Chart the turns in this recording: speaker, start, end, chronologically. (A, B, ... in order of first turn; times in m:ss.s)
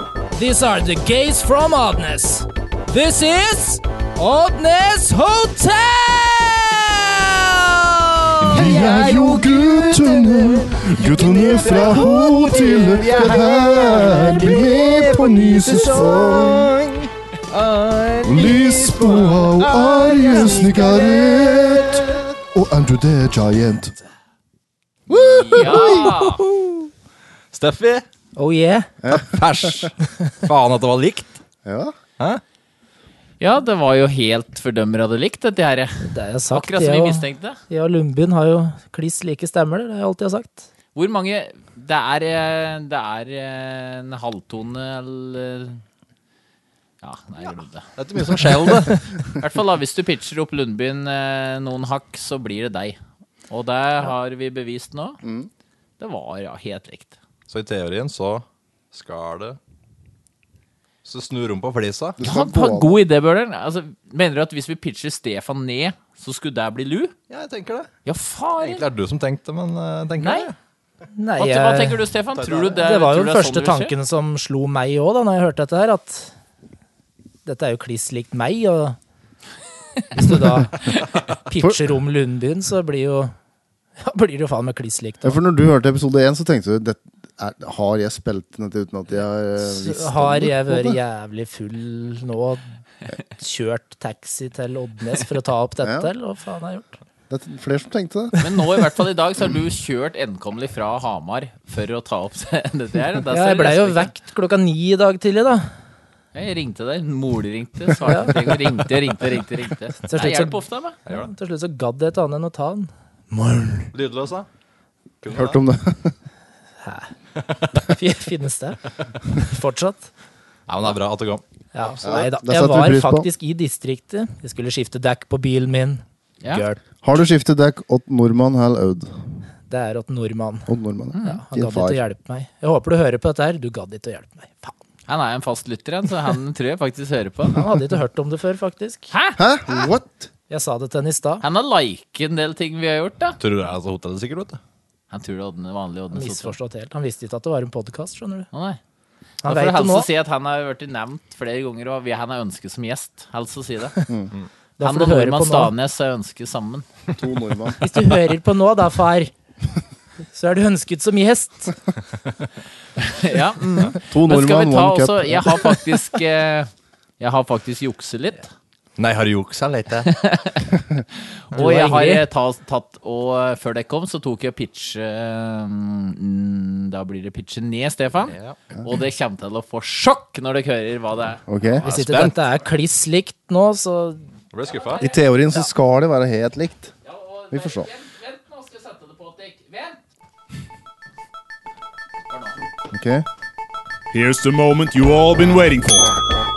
0:00.3-0:16.8 A
0:08.5-0:16.7 B
0:17.5-0:18.4 C
0:18.2-0:23.9 B
0:18.3-0:22.2 A
0:25.1-0:26.4 C
0:25.2-0:26.4 D
0:27.5-0:28.0 C
0:28.4-0:28.9 A
0:29.0-0:29.9 B
0:29.1-0:31.4 C
0:31.6-0:32.0 B
0:33.4-0:37.6 D
0:36.0-0:40.7 A
0:40.9-0:45.8 D
0:47.0-0:47.9 D
0:48.0-0:49.0 C
0:49.4-0:53.0 D
0:53.5-0:55.2 D
0:55.2-0:55.5 B
0:56.0-0:57.2 D
0:57.5-0:59.6 C
1:01.0-1:02.2 C
1:02.2-1:02.9 B
1:02.2-1:07.1 D
1:07.3-1:07.9 C
1:08.0-1:08.8 D
1:08.6-1:10.5 C
1:10.2-1:10.5 D
1:11.1-1:12.1 A
1:11.4-1:13.9 D
1:12.3-1:12.8 C
1:12.7-1:16.3 A
1:17.4-1:19.0 A
1:20.2-1:20.8 A
1:21.5-1:23.3 A
1:24.0-1:25.4 A
1:25.2-1:31.0 B
1:29.6-1:32.6 A
1:33.4-1:37.0 A
1:35.8-1:36.1 B
1:37.3-1:38.4 B
1:38.4-1:44.1 D
1:43.3-1:45.7 A
1:46.3-1:51.0 D
1:48.0-1:48.5 A
1:50.1-1:53.9 A
1:53.9-1:54.5 C
1:55.2-1:55.6 C
1:55.3-1:56.1 B
1:56.8-1:57.1 A
1:57.9-2:00.1 A
2:00.7-2:02.0 C
2:01.7-2:06.8 A
2:02.0-2:03.3 B
2:07.0-2:09.2 B
2:09.7-2:10.7 A
2:10.7-2:12.0 B
2:11.1-2:11.4 D
2:11.2-2:14.7 A
2:15.1-2:17.6 D
2:17.5-2:19.1 A
2:19.1-2:19.4 D
2:19.4-2:20.3 B
2:20.5-2:21.4 A
2:21.4-2:23.4 D
2:23.4-2:24.6 C
2:25.1-2:26.6 D
2:26.1-2:28.5 A
2:28.5-2:28.8 D
2:29.4-2:30.1 A
2:29.4-2:34.0 D
2:34.8-2:35.7 A
2:34.8-2:36.9 D
2:37.2-2:37.9 B
2:37.8-2:39.3 A
2:40.3-2:41.7 A
2:43.0-2:48.5 D
2:44.0-2:45.7 B
2:49.0-2:50.1 C
2:50.1-2:50.6 D
2:51.5-3:01.8 D
2:51.5-2:52.2 A
2:58.3-2:58.6 C
3:01.5-3:01.8 B
3:01.8-3:04.2 A
3:01.8-3:02.4 C
3:04.5-3:05.1 C
3:04.7-3:05.2 D
3:05.0-3:06.9 B
3:07.0-3:10.0 D
3:07.5-3:07.9 B
3:12.3-3:12.6 D
3:12.9-3:13.2 B
3:14.1-3:16.2 E